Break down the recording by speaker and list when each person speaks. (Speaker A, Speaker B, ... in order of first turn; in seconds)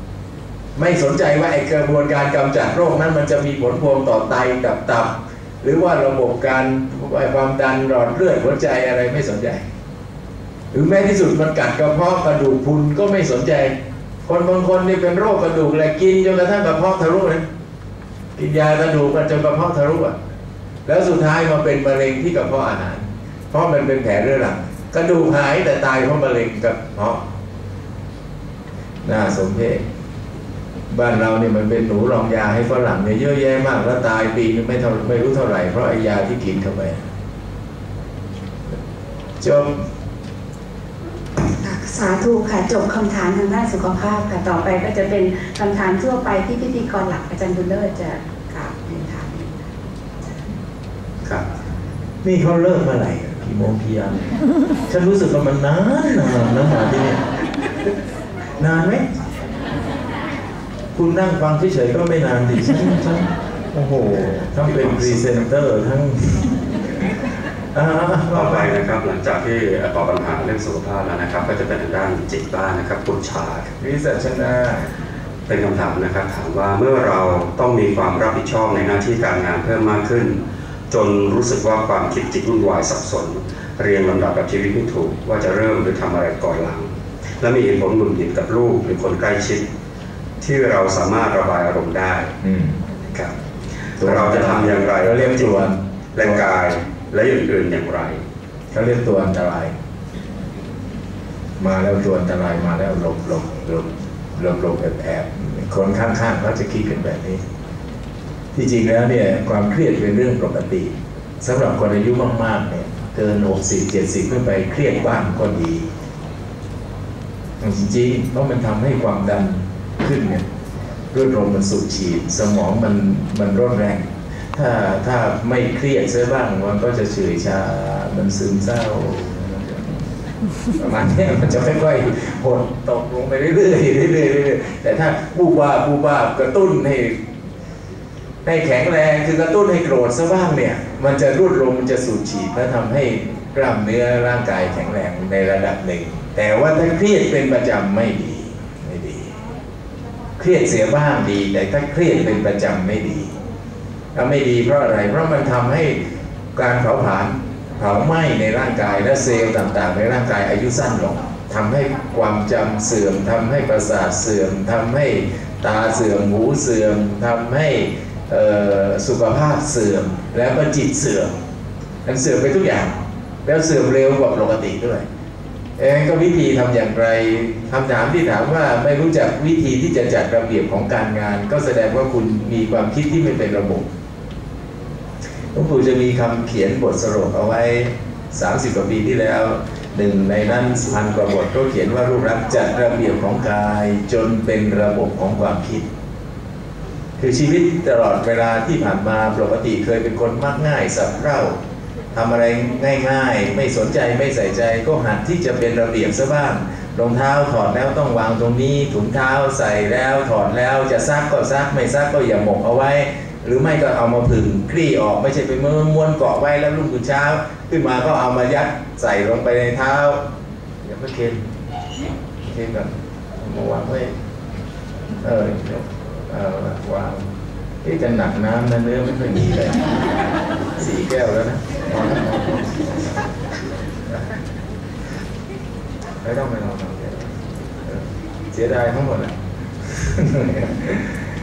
Speaker A: 0.8-9.6, 10.7-17.4, 18.4-20.1, 20.9-27.2, 29.0-29.8, 30.9-37.0, 39.4-39.7, 52.2-54.2, 54.9-57.2, 58.6-59.1, 60.9-66.6, 67.7-68.8, 73.8-74.9, 92.4-92.8, 94.0-96.4, 98.7-99.7, 101.6-107.4, 108.5-115.9, 117.6-120.4, 121.1-129.9, 130.8-137.2, 138.4-149.3, 150.4-153.3, 154.1-156.0, 156.5-171.4, 172.0-175.0, 175.8-183.9, 185.5-195.8, 197.2-201.6, 202.1-220.2, 220.8-221.4, 222.4-224.1, 225.2-227.2, 227.8-229.8, 230.8-232.8, 236.2-241.2
Speaker B: 41.5-49.6
Speaker C: 68.3-73.7, 75.5-80.4, 80.9-86.9, 87.4-89.6, 90.4-92.3, 94.0-95.6, 96.1-98.2